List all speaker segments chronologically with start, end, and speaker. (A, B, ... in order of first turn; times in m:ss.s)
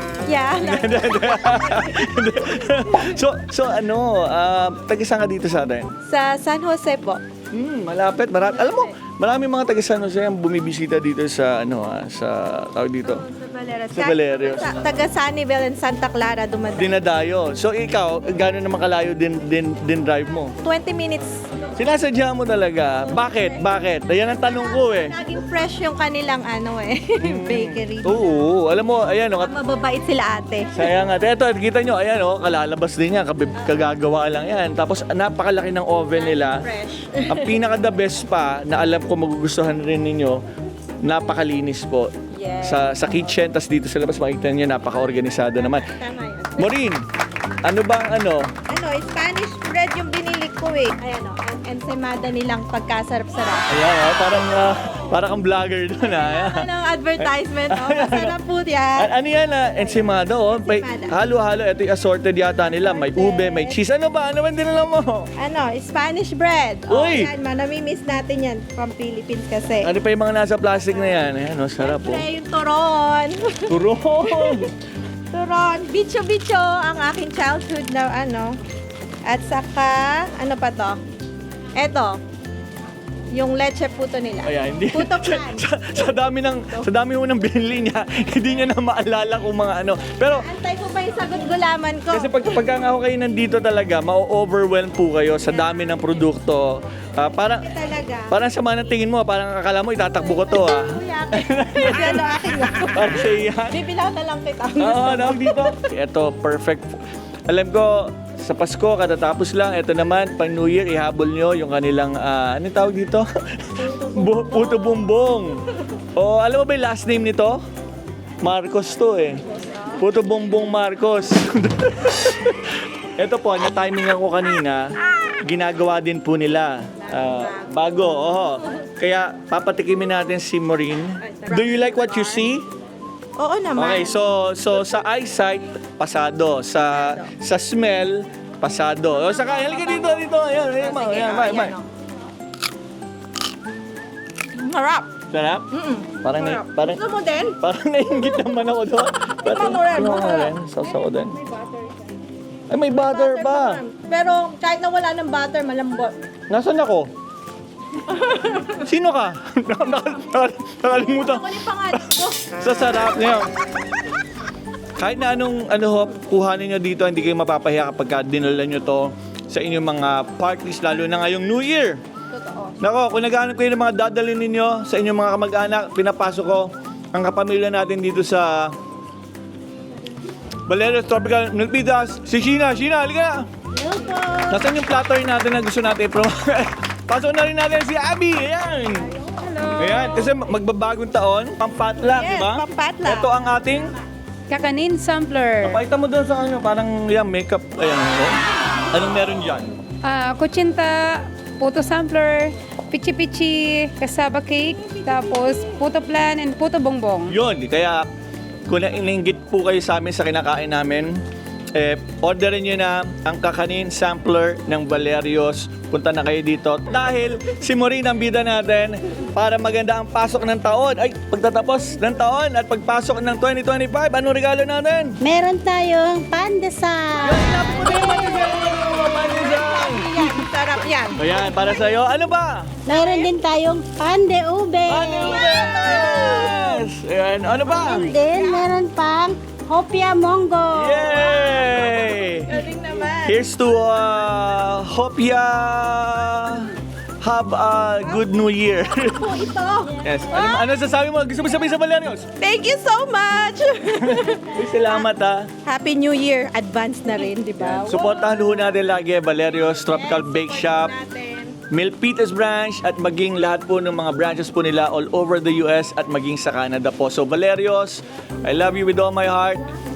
0:00.2-0:02.1 A
0:00.6-0:05.9 B
0:06.0-0:07.2 A
0:07.5-0:13.2 B
0:13.2-0:17.0 A
0:13.9-0:14.8 B
0:16.7-0:20.5 B
0:20.6-0:21.4 A
0:21.8-0:25.2 B
0:23.0-0:28.4 A
0:27.2-0:29.5 B
0:29.4-0:30.9 A
0:30.7-0:36.7 B
0:36.1-0:37.6 A
0:37.3-0:40.4 B
0:41.0-0:45.9 B
0:42.3-0:42.9 A
0:45.6-0:46.7 A
0:46.6-0:47.0 B
0:47.6-0:48.5 B
0:48.6-0:53.7 A
0:53.7-0:56.7 B
0:56.0-0:59.1 A
0:57.2-0:58.4 B
0:59.0-1:05.3 B
1:00.4-1:01.1 A
1:02.9-1:03.8 A
1:05.4-1:09.9 A
1:06.9-1:07.3 B
1:09.8-1:12.2 B
1:11.8-1:14.7 A
1:13.7-1:14.7 B
1:15.3-1:18.6 A
1:19.2-1:21.0 A
1:21.8-1:22.2 A
1:23.3-1:26.9 A
1:24.4-1:30.5 B
1:30.3-1:32.3 A
1:32.1-1:37.7 B
1:37.6-1:38.3 A
1:38.3-1:42.2 B
1:40.2-1:45.8 A
1:42.9-1:43.8 B
1:44.8-1:46.9 B
1:47.5-1:55.6 B
1:54.0-1:54.9 A
1:56.2-1:57.6 B
1:58.4-1:59.4 B
2:00.0-2:02.6 B
2:03.2-2:12.6 B
2:11.3-2:12.4 A
2:13.4-2:14.2 A
2:13.8-2:21.8 B
2:16.9-2:17.3 A
2:19.5-2:20.1 A
2:20.8-2:21.8 A
2:24.5-2:25.1 A
2:25.3-2:25.7 B
2:25.7-2:27.6 A
2:26.2-2:27.0 B
2:27.6-2:31.4 B
2:29.4-2:30.5 A
2:32.7-2:33.8 B
2:32.9-2:36.2 A
2:36.5-2:37.1 B
2:38.6-2:43.5 B
2:41.1-2:42.4 A
2:45.0-2:52.0 B
2:52.3-2:52.7 C
2:52.8-2:58.7 B
3:00.7-3:03.5 B
3:03.7-3:04.6 D
3:04.5-3:09.1 B
3:09.4-3:10.3 C
3:09.8-3:13.9 B
3:12.0-3:13.3 A
3:14.5-3:15.8 C
3:15.6-3:19.7 B
3:20.0-3:27.3 C
3:27.3-3:28.1 B
3:28.7-3:31.2 B
3:31.7-3:45.2 B
3:45.2-3:48.6 D
3:47.2-3:50.4 B
3:48.4-3:51.4 A
3:51.2-3:52.7 B
3:52.8-3:56.6 D
3:52.9-3:53.3 A
3:54.9-3:58.1 B
3:55.2-3:56.8 A
3:57.6-4:01.3 D
3:58.3-3:58.7 A
4:00.7-4:02.5 B
4:01.1-4:03.4 A
4:03.2-4:09.4 B
4:09.0-4:10.7 A
4:10.0-4:12.3 B
4:12.4-4:15.0 A
4:13.9-4:15.5 B
4:15.6-4:18.3 A
4:17.6-4:20.9 B
4:19.9-4:21.6 A
4:21.7-4:29.6 B